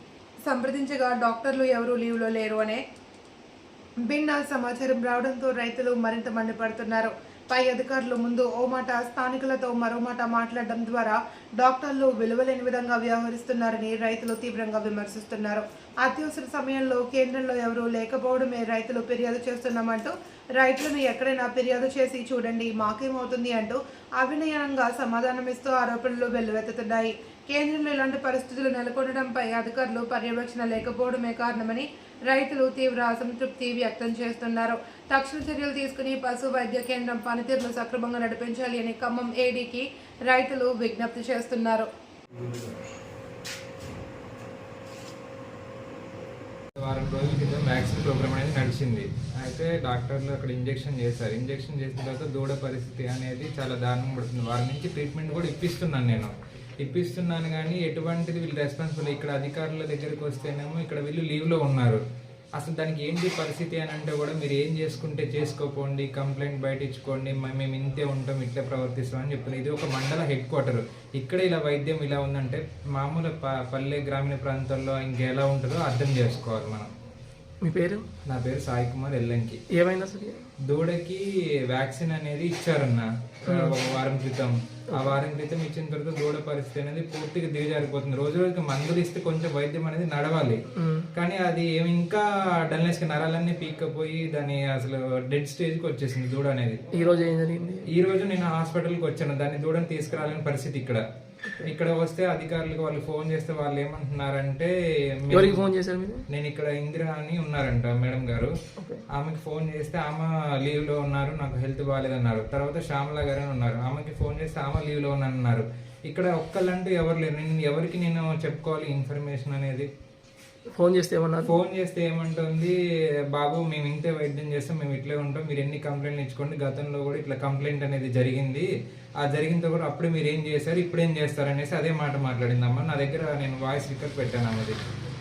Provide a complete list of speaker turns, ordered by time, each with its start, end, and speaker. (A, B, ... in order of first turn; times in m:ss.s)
0:00.5-0:02.8 A
0:04.0-0:41.9 A
0:46.8-1:02.0 B
1:02.6-1:16.9 B
1:17.6-1:18.1 C
1:18.3-1:19.6 B
1:19.7-1:20.5 C
1:20.6-1:30.6 B
1:23.5-1:23.8 C
1:24.9-1:25.2 C
1:30.8-1:31.1 C
1:31.2-1:36.8 B
1:36.9-1:37.9 C
1:37.9-1:41.0 B
1:41.6-1:45.6 B
1:45.3-1:46.3 C
1:46.3-1:48.5 B
1:48.8-1:49.0 C
1:49.1-1:59.9 B
2:00.8-2:01.6 C
2:01.4-2:02.7 B
2:03.3-2:08.7 B
2:09.2-2:14.8 B